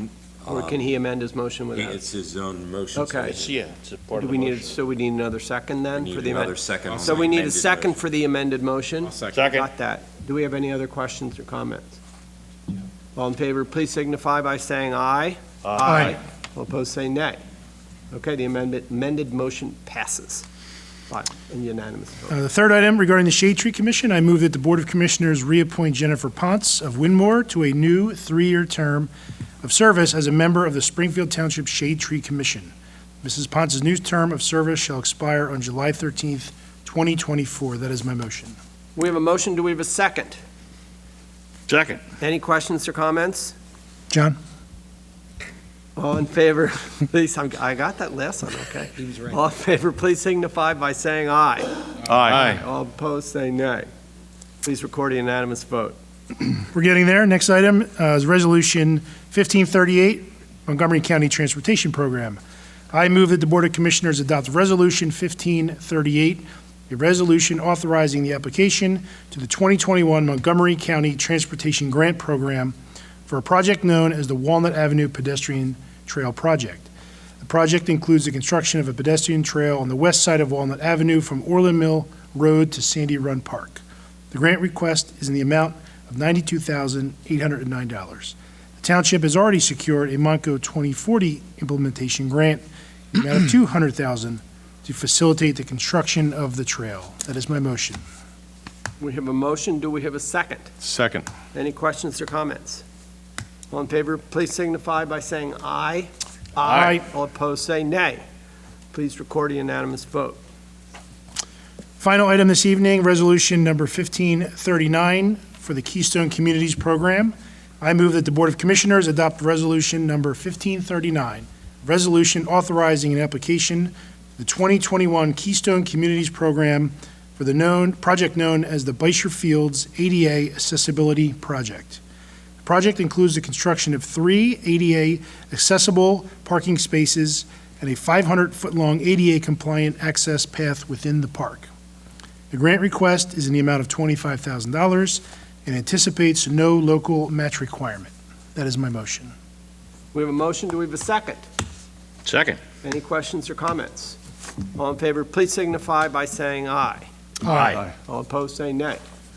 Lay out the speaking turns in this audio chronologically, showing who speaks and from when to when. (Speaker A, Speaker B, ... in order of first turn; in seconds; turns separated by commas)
Speaker A: 0.4-0.9, Speaker B: 0.5-2.0, Speaker A: 1.8-3.5, Speaker B: 3.0-3.4, Speaker C: 3.4-4.7, Speaker B: 4.1-12.0, Speaker A: 5.9-8.0, Speaker C: 9.3-9.7, Speaker B: 13.2-17.4, Speaker C: 15.7-15.9, Speaker D: 15.8-16.2, Speaker B: 18.1-20.5, Speaker B: 21.1-22.4, Speaker D: 22.3-29.1, Speaker D: 29.6-38.6, Speaker B: 39.0-40.4, Speaker C: 41.7-42.0, Speaker B: 42.2-43.5, Speaker D: 44.1-44.4, Speaker B: 46.0-53.9, Speaker C: 52.0-52.6, Speaker B: 54.6-56.0, Speaker D: 56.4-62.4, Speaker D: 62.9-72.8, Speaker D: 73.3-76.9, Speaker D: 77.4-98.0, Speaker B: 99.0-100.7, Speaker C: 100.8-101.3, Speaker B: 101.5-102.8, Speaker B: 103.7-108.2, Speaker D: 106.7-107.0, Speaker B: 108.9-110.4, Speaker D: 112.0-132.0, Speaker D: 132.6-141.7, Speaker D: 142.5-149.3, Speaker B: 150.1-151.5, Speaker C: 152.2-152.6, Speaker B: 152.8-154.2, Speaker B: 154.8-157.1, Speaker D: 157.4-157.8, Speaker C: 157.5-157.9, Speaker B: 157.9-159.0